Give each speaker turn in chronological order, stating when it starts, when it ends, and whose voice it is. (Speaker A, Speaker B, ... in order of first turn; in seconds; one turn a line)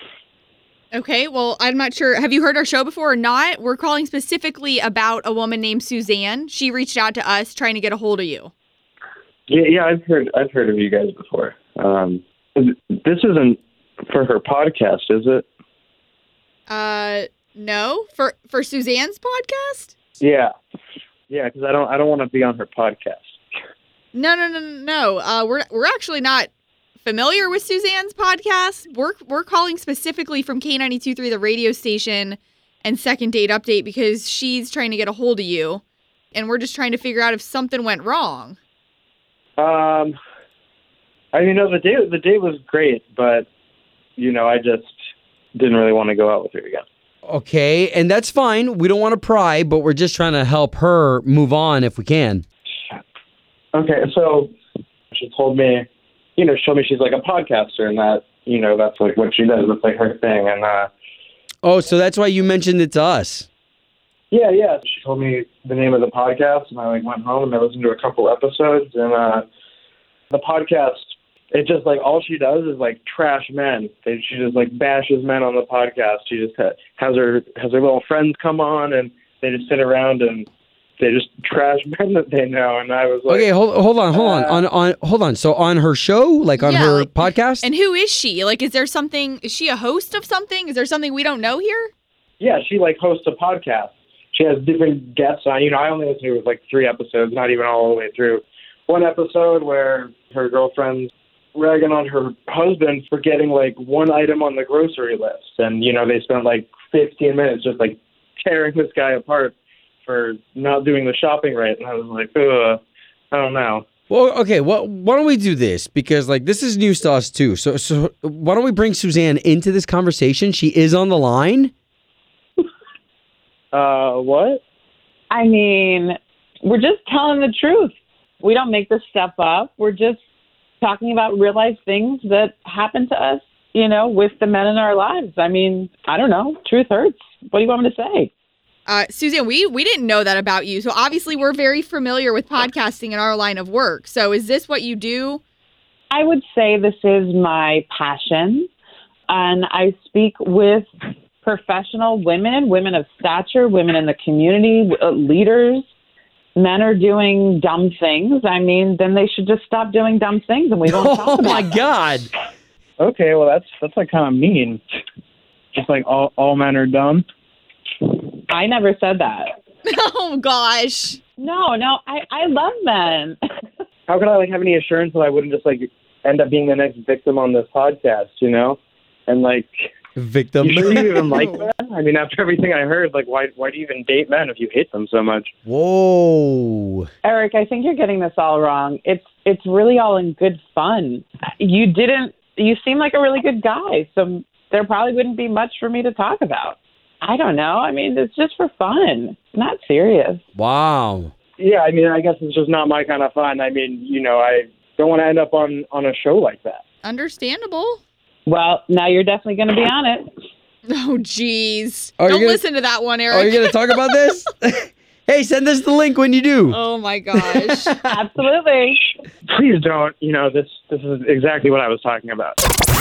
Speaker A: 0.9-8.5
Speaker B: 9.5-15.4
Speaker A: 16.7-19.9
Speaker B: 20.2-20.5
Speaker B: 21.3-23.3
Speaker A: 24.1-26.5
Speaker A: 27.0-35.8
Speaker A: 36.3-38.5
Speaker B: 39.6-40.1
Speaker B: 41.3-43.5
Speaker B: 44.2-44.9
Speaker B: 45.5-46.8
Speaker C: 47.2-52.4
Speaker B: 53.7-54.5
Speaker B: 55.1-55.9
Speaker B: 56.4-60.9
Speaker C: 61.6-63.5
Speaker B: 64.3-69.4
Speaker B: 70.3-71.0
Speaker B: 71.5-80.5
Speaker B: 81.0-83.5
Speaker C: 83.3-87.7
Speaker B: 84.1-84.6
Speaker A: 86.6-91.9
Speaker B: 92.4-109.5
Speaker B: 110.0-112.8
Speaker B: 113.3-113.8
Speaker C: 114.1-121.7
Speaker B: 123.7-124.6
Speaker D: 125.3-130.2
Speaker D: 130.8-138.3
Speaker A: 138.8-145.4
Speaker D: 146.1-148.7
Speaker D: 149.3-150.8
Speaker D: 151.4-155.8
Speaker D: 156.6-161.8
Speaker C: 160.9-162.3
Speaker B: 163.0-164.8
Speaker B: 165.7-167.2
Speaker D: 168.5-169.5
Speaker A: 169.8-171.2
Speaker D: 171.4-173.4
Speaker B: 174.1-179.9
Speaker C: 180.2-181.3
Speaker B: 180.6-185.5
Speaker A: 181.3-181.7
Speaker C: 185.7-187.1
Speaker D: 187.2-200.4
Speaker C: 200.6-201.3
Speaker B: 201.6-206.8
Speaker A: 207.0-208.0
Speaker D: 208.4-210.3
Speaker A: 210.9-214.2
Speaker C: 212.2-212.6
Speaker C: 213.3-216.8
Speaker A: 216.7-217.9
Speaker C: 217.4-218.2
Speaker D: 218.1-219.0
Speaker B: 219.5-222.6